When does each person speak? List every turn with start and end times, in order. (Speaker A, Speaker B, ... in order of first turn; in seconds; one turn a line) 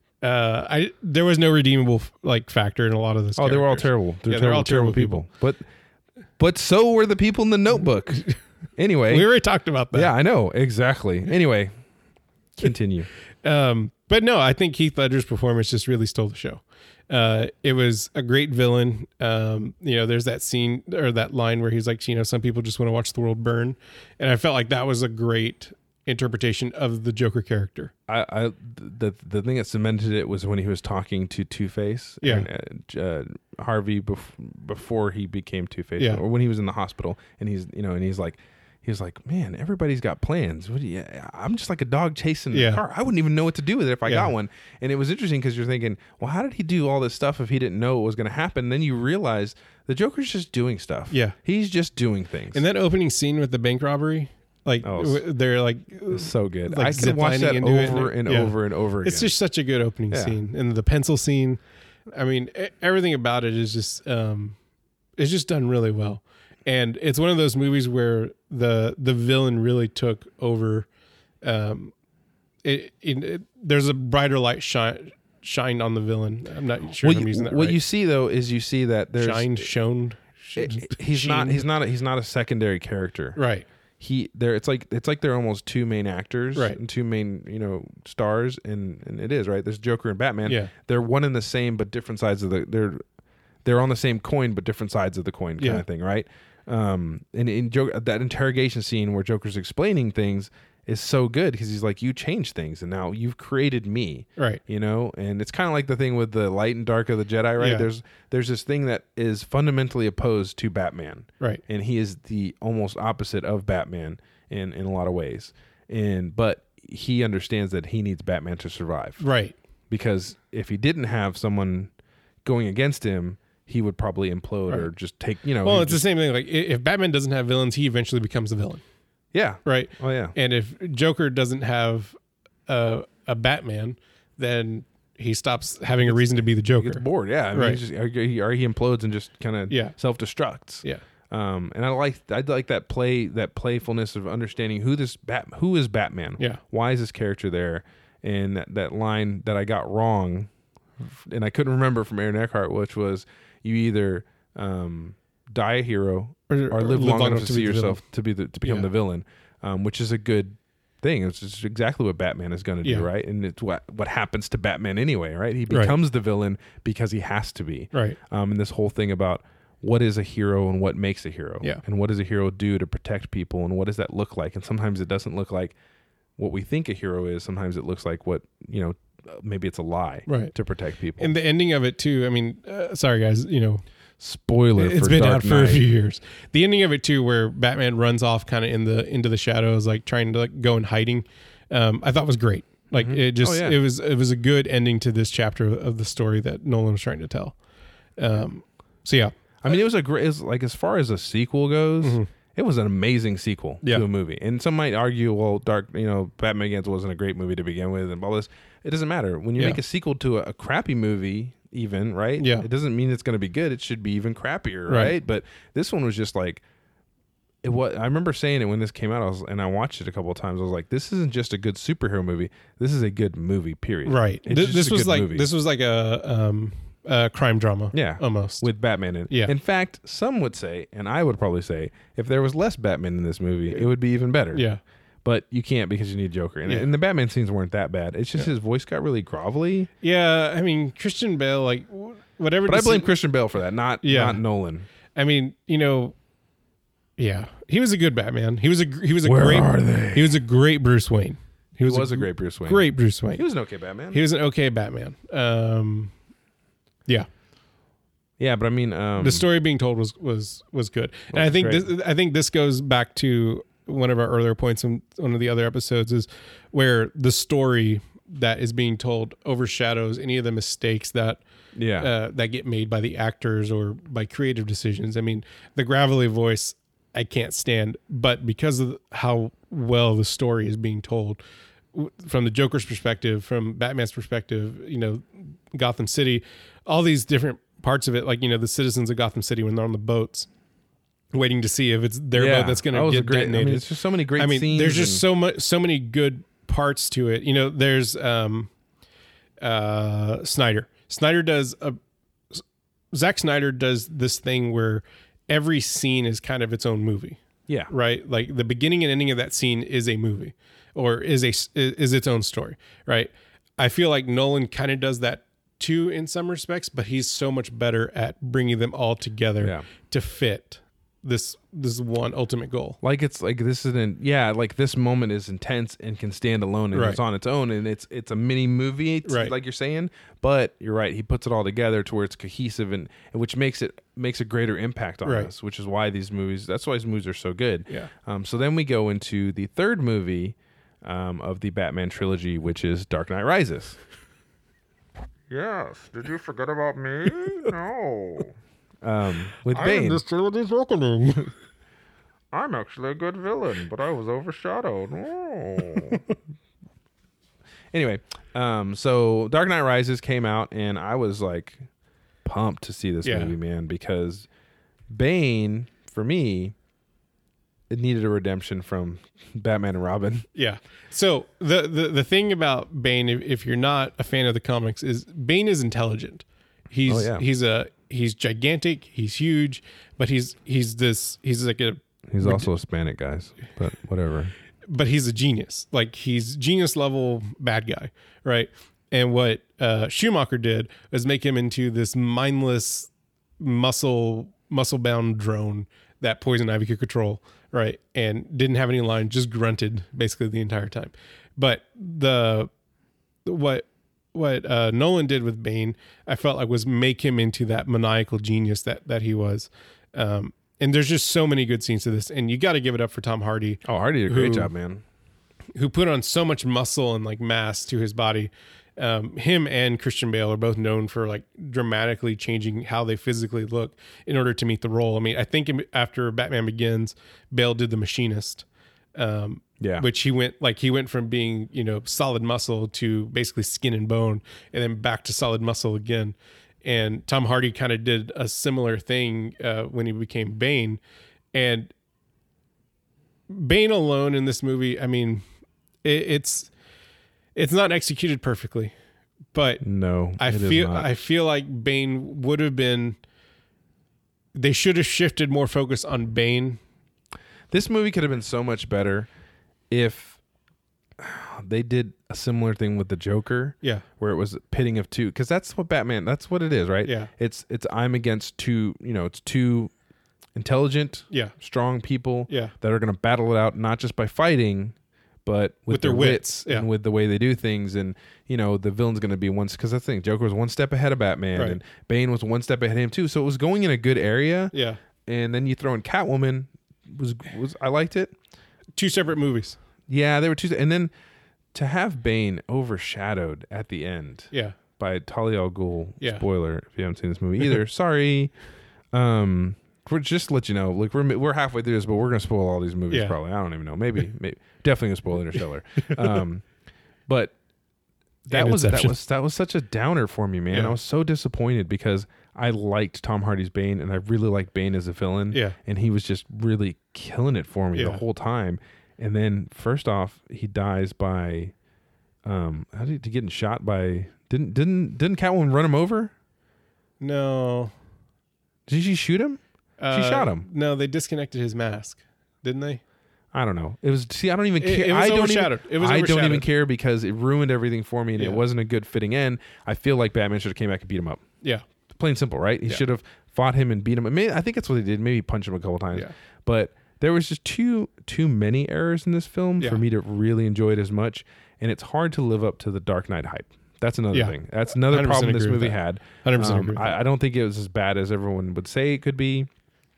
Speaker A: 0.2-5.2
Speaker B: 3.4-5.6
Speaker B: 6.4-9.3
Speaker A: 9.1-10.1
Speaker B: 9.9-11.7
Speaker B: 12.6-13.1
Speaker A: 13.4-27.9
Speaker B: 28.1-52.6
Speaker A: 32.2-32.5
Speaker A: 42.5-42.8
Speaker A: 44.0-44.3
Speaker A: 51.1-51.4
Speaker A: 52.5-64.6
Speaker B: 54.8-55.2
Speaker B: 56.1-59.3
Speaker B: 60.1-60.4
Speaker A: 65.2-70.9
Speaker A: 71.4-71.9
Speaker A: 72.6-77.8
Speaker B: 77.0-79.7
Speaker A: 79.2-81.7
Speaker B: 80.5-83.4
Speaker A: 83.3-83.7
Speaker B: 84.0-93.0
Speaker A: 90.5-90.7
Speaker B: 93.6-119.2
Speaker A: 95.6-95.8
Speaker A: 107.6-107.9
Speaker A: 119.2-119.5
Speaker B: 119.9-121.9
Speaker B: 122.4-126.0
Speaker A: 125.6-128.8
Speaker B: 129.3-130.3
Speaker A: 129.6-132.2
Speaker A: 132.7-137.8
Speaker B: 136.0-175.7
Speaker A: 139.7-139.9
Speaker A: 156.5-158.0
Speaker A: 158.6-158.9
Speaker A: 165.7-165.9
Speaker B: 176.4-181.3
Speaker A: 180.3-180.5
Speaker A: 181.2-183.8
Speaker B: 184.2-185.9
Speaker A: 184.8-197.6
Speaker B: 192.9-193.8
Speaker A: 198.2-199.3
Speaker B: 199.6-216.6
Speaker A: 202.0-202.3
Speaker A: 212.4-212.7
Speaker A: 214.9-215.2
Speaker B: 217.6-225.5
Speaker A: 224.1-228.7
Speaker B: 227.9-234.7
Speaker A: 234.5-234.8
Speaker B: 235.2-239.9
Speaker A: 240.0-243.1
Speaker B: 242.7-244.8
Speaker A: 244.0-244.4
Speaker A: 245.1-246.1
Speaker A: 247.2-253.4
Speaker B: 249.2-250.4
Speaker B: 251.8-254.2
Speaker A: 254.1-256.1
Speaker B: 258.4-259.4
Speaker A: 259.2-271.4
Speaker B: 261.3-261.9
Speaker B: 271.7-272.1
Speaker A: 272.0-281.4
Speaker A: 281.9-290.5
Speaker A: 291.3-293.8
Speaker B: 292.3-295.2
Speaker A: 294.4-298.7
Speaker A: 299.6-302.0
Speaker A: 302.5-323.0
Speaker B: 319.6-319.9
Speaker B: 323.0-344.0
Speaker A: 326.9-327.2
Speaker A: 329.2-329.5
Speaker A: 335.2-335.5
Speaker B: 345.5-346.4
Speaker C: 346.4-347.7
Speaker B: 347.2-348.4
Speaker B: 349.0-350.2
Speaker C: 349.7-351.5
Speaker B: 354.8-355.1
Speaker B: 355.8-356.2
Speaker B: 357.9-361.9
Speaker B: 362.4-364.5
Speaker A: 363.2-363.5
Speaker B: 365.1-366.7
Speaker B: 367.9-370.4
Speaker A: 370.5-382.6
Speaker B: 377.1-377.4
Speaker B: 382.3-384.5
Speaker A: 384.9-402.7
Speaker A: 403.4-414.7
Speaker B: 413.8-415.0
Speaker A: 415.7-428.6
Speaker A: 429.1-441.0
Speaker B: 429.8-430.1
Speaker A: 441.5-441.9
Speaker A: 443.5-445.4
Speaker A: 446.0-446.7
Speaker A: 447.5-448.9
Speaker A: 449.5-449.8
Speaker B: 449.8-451.1
Speaker A: 450.4-453.2
Speaker A: 454.5-456.8
Speaker B: 457.7-459.3
Speaker B: 459.9-460.4
Speaker B: 461.2-469.9
Speaker A: 467.0-467.3
Speaker B: 470.5-484.7
Speaker A: 472.5-472.7
Speaker A: 475.9-476.9
Speaker A: 484.7-485.0
Speaker B: 485.2-488.3
Speaker A: 488.9-489.8
Speaker B: 490.1-491.1
Speaker B: 491.7-498.5
Speaker A: 494.5-494.8
Speaker B: 499.1-506.6
Speaker B: 507.3-507.5
Speaker B: 508.5-521.7
Speaker A: 508.5-509.1
Speaker A: 515.5-515.8
Speaker A: 517.9-518.2
Speaker B: 522.4-526.3
Speaker A: 527.2-527.9
Speaker B: 528.9-530.6
Speaker A: 530.0-533.0
Speaker B: 533.5-541.4
Speaker A: 534.8-536.6
Speaker A: 538.4-538.6
Speaker B: 542.1-559.7
Speaker A: 554.3-557.1